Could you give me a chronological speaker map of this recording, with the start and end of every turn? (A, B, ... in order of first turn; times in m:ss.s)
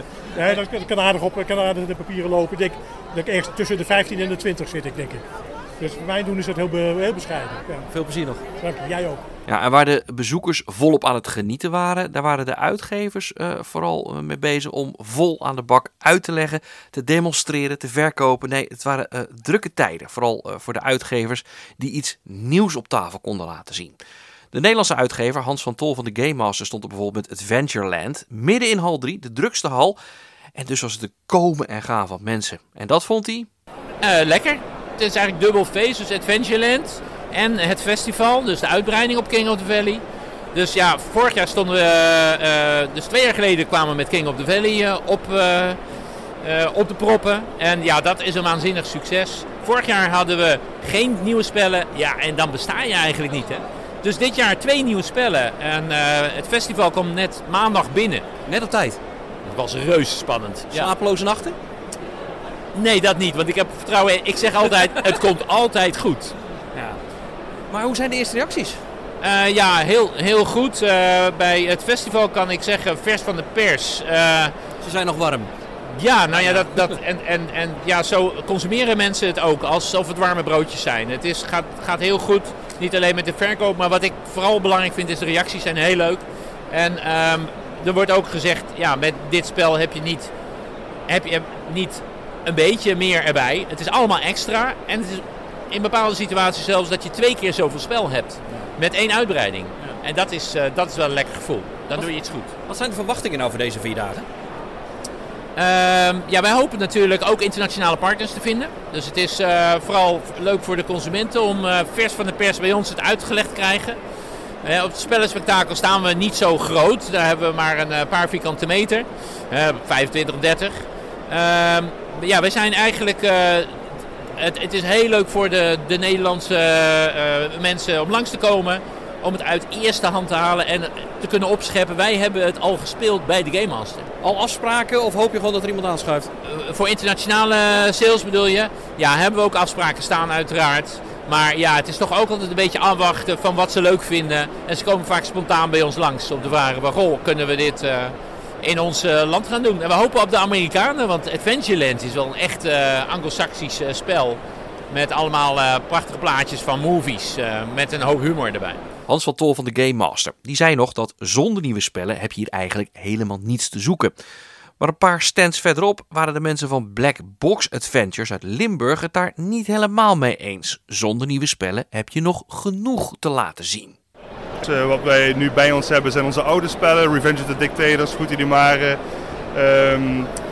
0:00.3-0:05.3 A
0:05.8-0:07.9 A
0:07.9-0:08.4 B
0:08.6-0:09.2 A
0:09.5-0:24.0 C
0:24.5-0:30.0 C
0:30.6-0:33.5 C
0:34.0-0:40.0 D
0:40.5-0:45.8 D
0:46.4-0:58.3 D
0:58.5-0:59.0 B
0:59.4-1:00.9 D
1:00.7-1:01.6 B
1:02.7-1:06.4 D
1:06.7-1:07.0 B
1:07.7-1:08.8 B
1:09.2-1:14.5 D
1:14.8-1:15.5 B
1:15.9-1:30.3 D
1:16.3-1:16.9 B
1:31.1-1:42.5 D
1:42.7-1:44.2 B
1:45.6-1:54.0 D
1:54.6-2:03.8 D
2:04.4-2:14.1 D
2:14.2-2:16.3 B
2:16.4-2:38.8 D
2:39.1-2:44.2 C
2:44.8-2:54.0 C
2:54.6-2:59.0 E
2:59.5-3:00.3 E